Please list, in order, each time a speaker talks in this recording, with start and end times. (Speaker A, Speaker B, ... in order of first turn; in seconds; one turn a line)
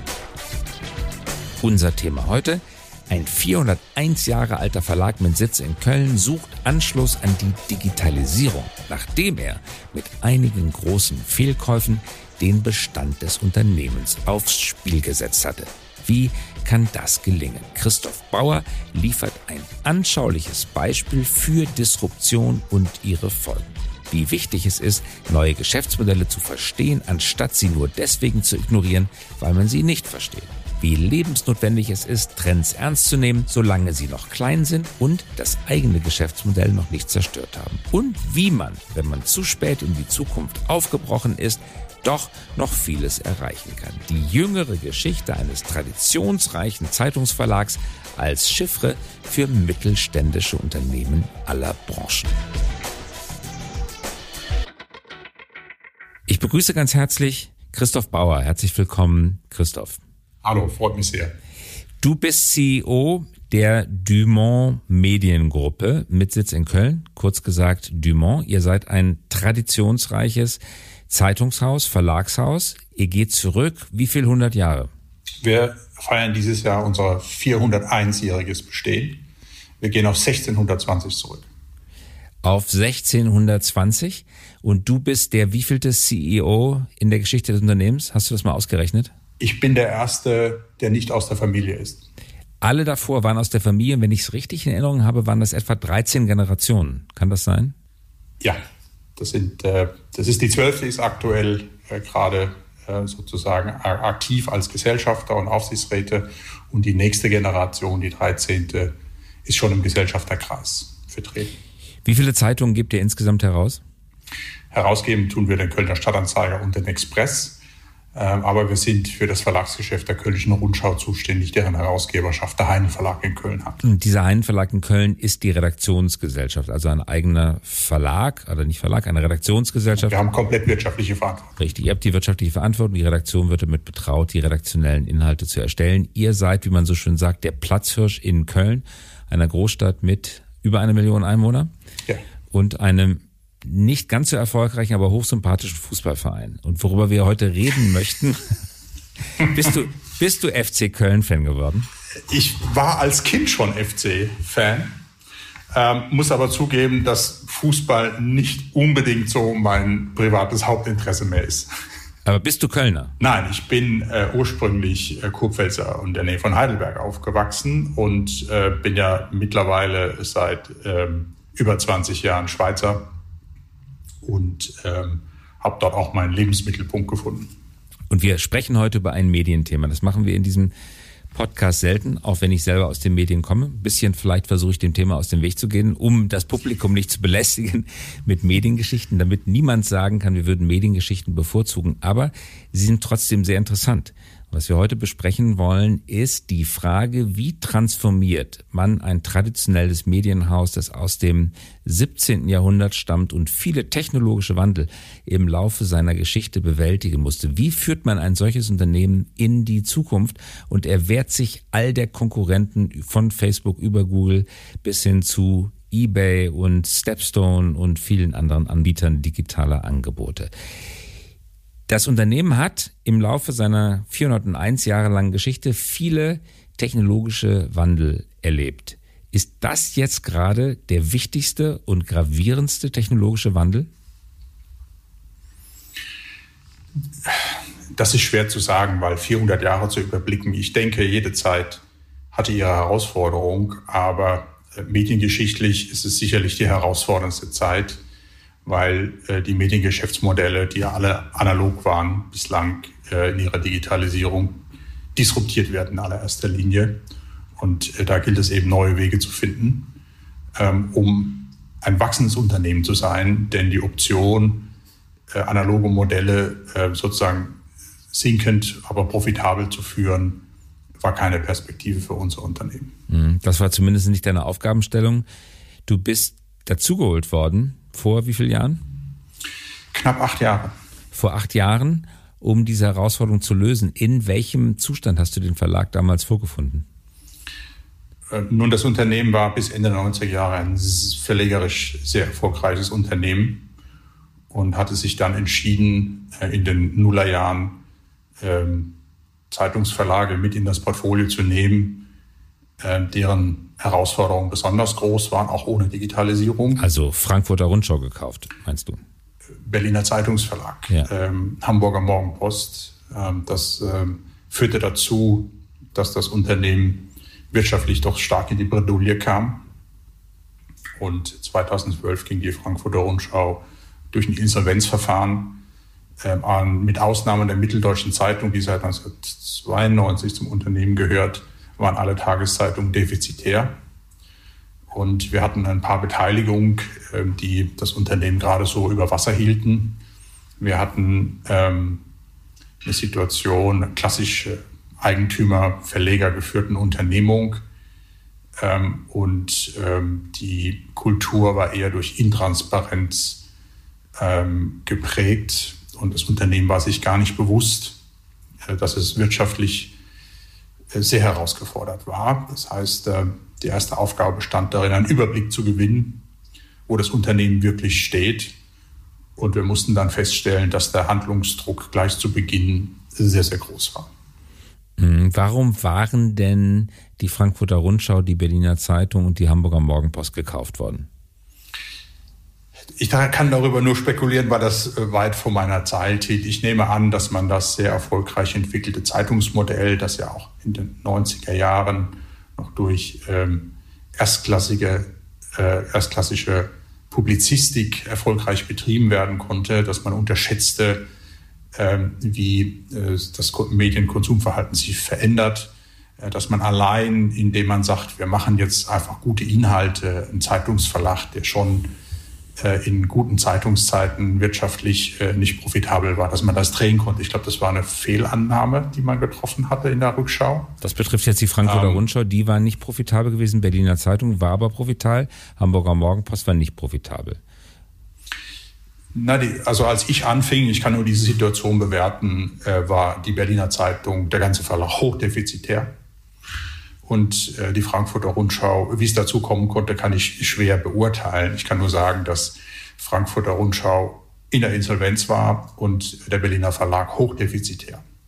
Speaker A: 1.6-52.4
Speaker A: 56.3-60.0
Speaker B: 60.4-61.4
Speaker A: 62.0-74.9
Speaker B: 75.4-79.2
Speaker B: 79.8-81.5
Speaker A: 82.4-89.1
Speaker B: 89.4-92.0
Speaker A: 92.6-97.7
Speaker B: 99.2-108.9
Speaker B: 109.5-111.5
Speaker A: 112.0-113.8
Speaker B: 114.7-117.6
Speaker B: 118.2-123.8
Speaker A: 123.8-130.2
Speaker B: 130.0-131.6
Speaker A: 131.6-141.7
Speaker A: 142.5-148.4
Speaker A: 149.4-151.9
Speaker B: 152.3-154.9
Speaker B: 155.7-161.7
Speaker A: 162.2-163.2
Speaker B: 163.2-173.1
Speaker B: 174.2-177.5
Speaker A: 178.1-180.7
Speaker A: 181.3-220.5
Speaker A: 221.9-233.9
Speaker B: 237.2-248.0
Speaker B: 248.7-254.6
Speaker B: 255.2-257.0
Speaker B: 257.6-259.9
Speaker B: 260.6-264.7
Speaker B: 265.3-267.6
Speaker B: 268.1-270.4
Speaker B: 271.0-272.9
Speaker A: 273.1-275.3
Speaker A: 275.9-278.8
Speaker B: 279.9-280.7
Speaker A: 281.1-286.9
Speaker B: 288.3-293.7
Speaker B: 294.5-297.8
Speaker B: 298.4-299.0
Speaker B: 299.5-302.1
Speaker B: 302.8-306.8
Speaker A: 306.8-309.0
Speaker B: 309.6-319.6
Speaker B: 321.0-325.6
Speaker B: 326.2-333.8
Speaker B: 334.9-340.0
Speaker B: 340.6-342.1
Speaker B: 342.8-347.6
Speaker B: 348.6-353.5
Speaker B: 354.2-358.0
Speaker B: 358.6-360.0
Speaker B: 360.9-366.2
Speaker B: 366.9-368.6
Speaker B: 369.4-374.1
Speaker A: 375.0-381.1
Speaker B: 383.0-401.1
Speaker B: 401.8-411.9
Speaker B: 412.6-420.8
Speaker A: 420.8-427.4
Speaker B: 421.6-422.1
Speaker B: 429.1-435.9
Speaker B: 437.0-448.0